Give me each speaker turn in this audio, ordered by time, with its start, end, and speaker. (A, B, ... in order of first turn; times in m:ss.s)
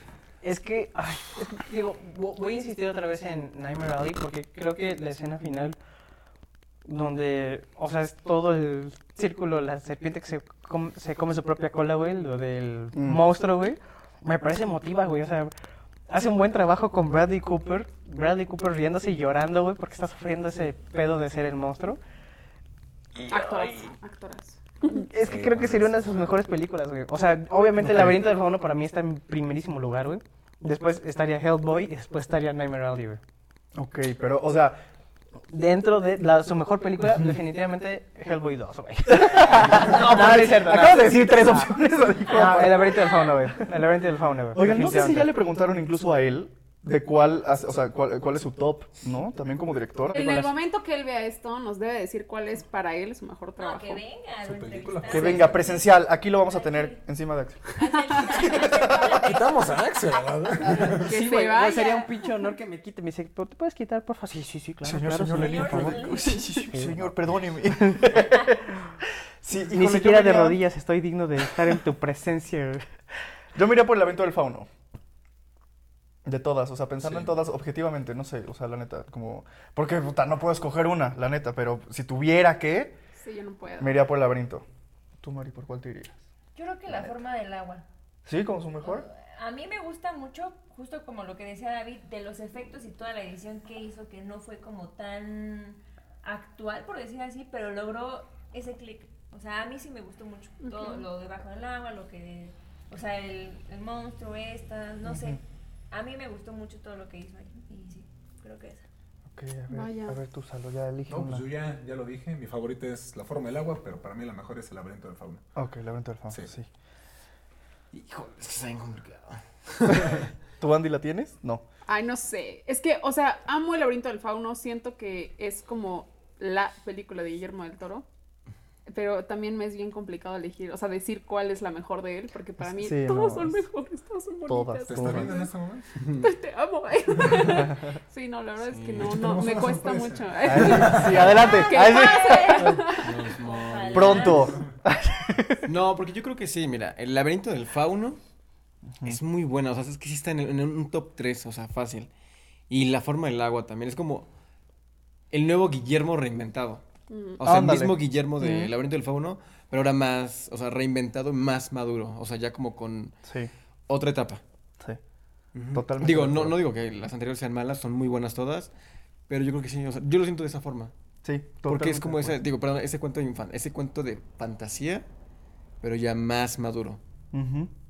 0:00.4-0:05.8 A
0:06.8-0:15.5 A
0:12.9-0:13.2 B
0:16.1-0:22.0 A
0:23.3-0:25.1 C
0:23.3-0:23.9 A
0:24.8-0:33.2 A
0:25.2-0:26.4 D
0:27.8-0:28.2 B
0:33.8-0:34.8 B
0:35.5-0:45.3 A
0:39.1-0:43.6 B
0:44.5-0:50.5 B
0:50.1-0:54.0 C
0:53.6-0:57.0 E
0:54.4-0:55.6 D
0:55.1-0:59.3 B
0:57.8-0:59.8 E
0:57.9-0:58.2 C
0:58.4-1:01.2 D
1:01.0-1:02.1 C
1:01.1-1:06.1 A
1:04.8-1:08.5 B
1:05.2-1:06.7 E
1:06.7-1:07.1 A
1:07.7-1:08.2 A
1:08.2-1:08.6 E
1:09.4-1:10.6 B
1:09.7-1:12.8 A
1:13.6-1:14.7 B
1:16.2-1:23.0 B
1:23.2-1:24.0 C
1:23.8-1:24.6 B
1:25.2-1:26.2 B
1:26.6-1:27.8 E
1:28.2-1:29.1 B
1:28.8-1:45.4 E
1:40.6-1:41.1 C
1:45.0-1:45.4 B
1:45.9-1:48.8 E
1:49.3-1:51.5 B
1:49.7-1:50.2 C
1:51.1-1:55.4 D
1:55.6-1:56.7 B
1:57.9-2:00.3 F
1:59.9-2:01.6 B
2:01.9-2:08.0 C
2:08.9-2:15.5 C
2:12.6-2:13.6 B
2:14.5-2:15.3 B
2:14.9-2:16.0 D
2:16.0-2:16.3 F
2:16.2-2:23.3 C
2:17.2-2:17.6 D
2:18.6-2:19.2 F
2:19.0-2:21.5 D
2:20.4-2:22.8 B
2:21.8-2:22.6 E
2:22.8-2:24.5 F
2:23.2-2:24.7 E
2:23.9-2:25.7 B
2:25.6-2:28.2 F
2:28.9-2:29.2 B
2:29.0-2:32.1 F
2:32.7-2:34.3 F
2:35.3-2:36.8 F
2:37.1-2:37.4 C
2:37.4-2:43.2 F
2:37.4-2:38.7 B
2:43.2-2:43.5 B
2:43.9-2:44.4 F
2:45.5-2:48.7 F
2:45.7-2:46.6 B
2:49.3-2:50.9 F
2:51.2-2:52.4 B
2:51.7-2:55.0 F
2:55.8-2:57.0 F
2:57.3-2:57.7 B